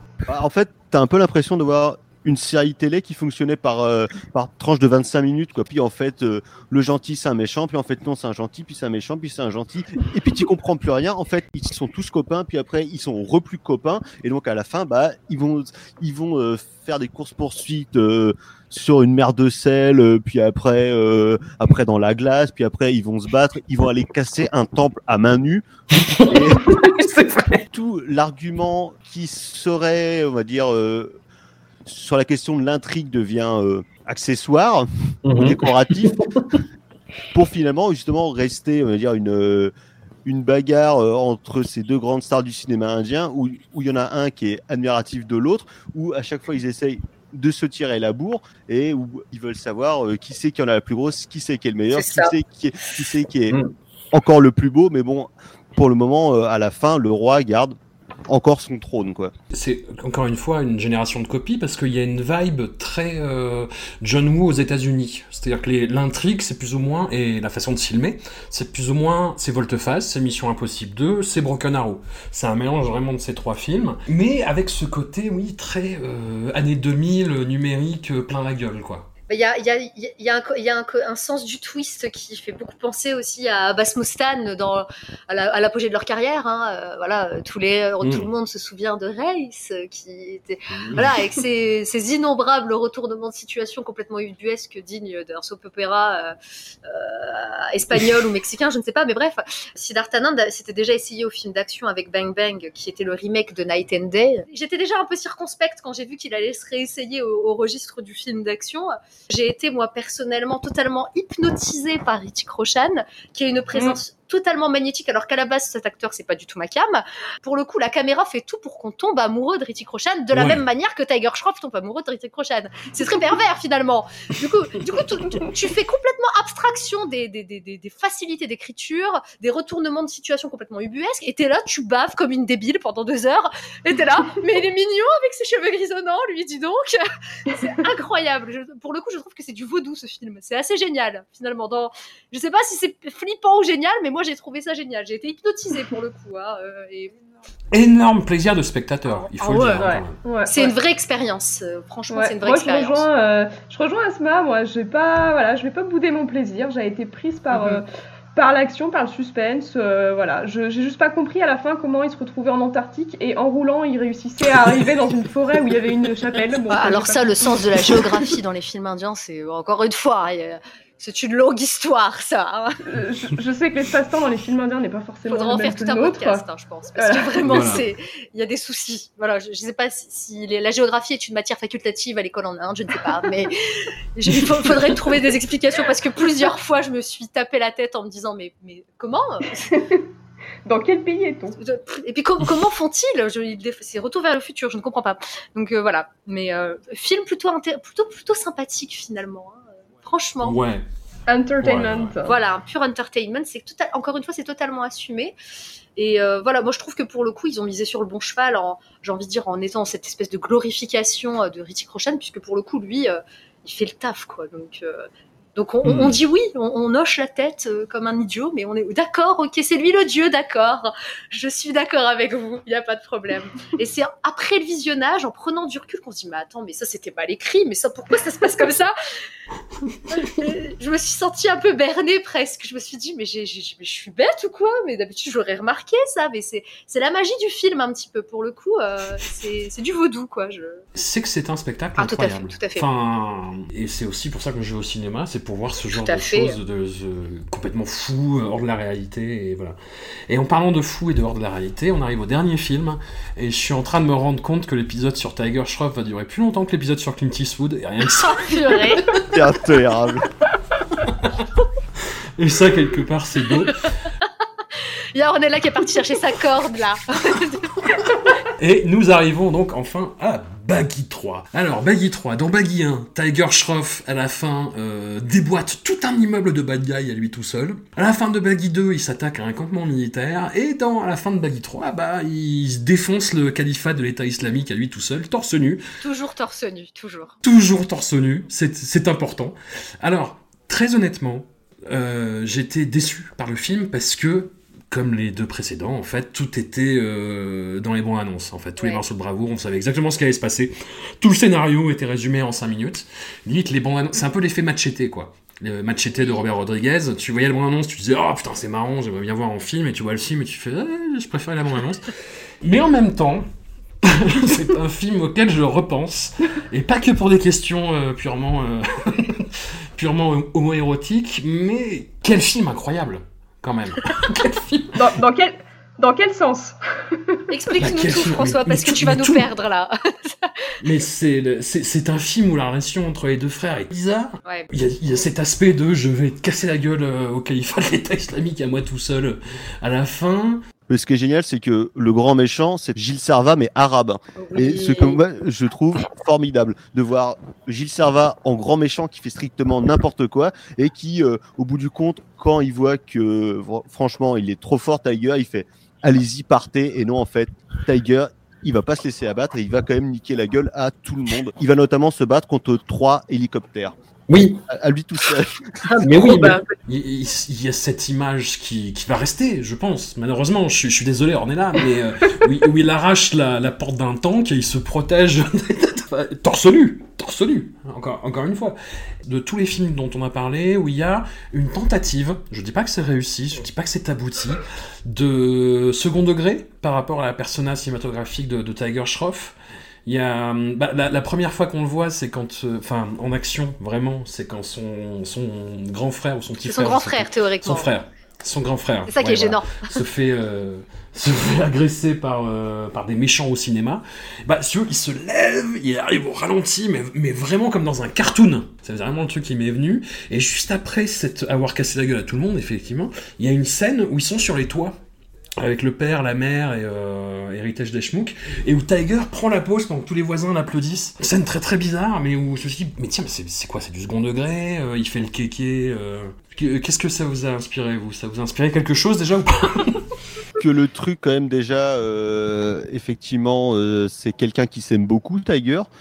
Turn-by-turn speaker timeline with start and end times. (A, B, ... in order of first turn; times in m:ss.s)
0:00.2-0:26.8 A
0:26.0-0:27.6 B
0:27.7-0:31.2 A
0:31.8-0:36.1 A
0:35.2-0:36.6 B
0:37.3-0:39.7 A
0:40.2-0:53.6 A
0:51.9-0:52.3 C
0:54.1-0:57.8 A
0:58.3-0:59.3 A
0:59.5-1:19.1 B
1:19.3-2:27.1 C
1:28.0-1:28.3 B
1:30.7-1:31.1 B
2:00.3-2:00.6 B
2:27.7-2:30.2 B
2:29.0-2:29.9 C
2:29.8-2:30.7 D
2:30.4-2:33.0 C
2:32.1-2:48.0 D
2:37.5-2:37.8 B
2:46.7-2:52.8 C
2:52.8-2:56.4 D
2:55.3-3:03.6 C
2:57.0-2:57.4 D
2:57.4-2:57.8 B
3:04.1-3:09.6 C
3:09.7-3:10.0 D
3:10.6-3:11.6 D
3:11.6-3:20.6 C
3:20.4-3:20.9 B
3:21.3-3:22.4 D
3:21.6-3:22.1 B
3:22.2-3:25.4 C
3:26.0-3:48.9 C
3:35.8-3:36.2 B
3:50.1-4:00.8 C
4:00.9-4:09.8 B
4:02.0-4:02.8 C
4:05.9-4:06.6 C
4:10.3-4:19.2 B
4:18.2-4:19.1 C
4:19.3-4:20.2 A
4:21.0-4:21.4 B
4:22.4-4:23.9 B
4:25.1-4:28.1 C
4:28.6-4:45.8 B
4:46.0-4:47.3 C
4:47.4-5:13.5 B
4:58.8-4:59.0 C
5:06.2-5:06.4 C
5:14.0-5:25.2 B
5:25.0-5:27.4 D
5:27.5-5:30.7 C
5:27.8-5:29.5 B
5:30.8-5:40.6 B
5:40.9-6:04.0 A
5:44.4-5:45.2 C
6:04.3-6:04.6 B
6:04.7-6:06.3 A
6:06.0-6:54.9 B
6:06.2-6:06.6 C
6:36.7-6:37.9 C
6:39.1-6:40.0 C
6:55.6-7:10.0 B
7:10.6-7:15.9 A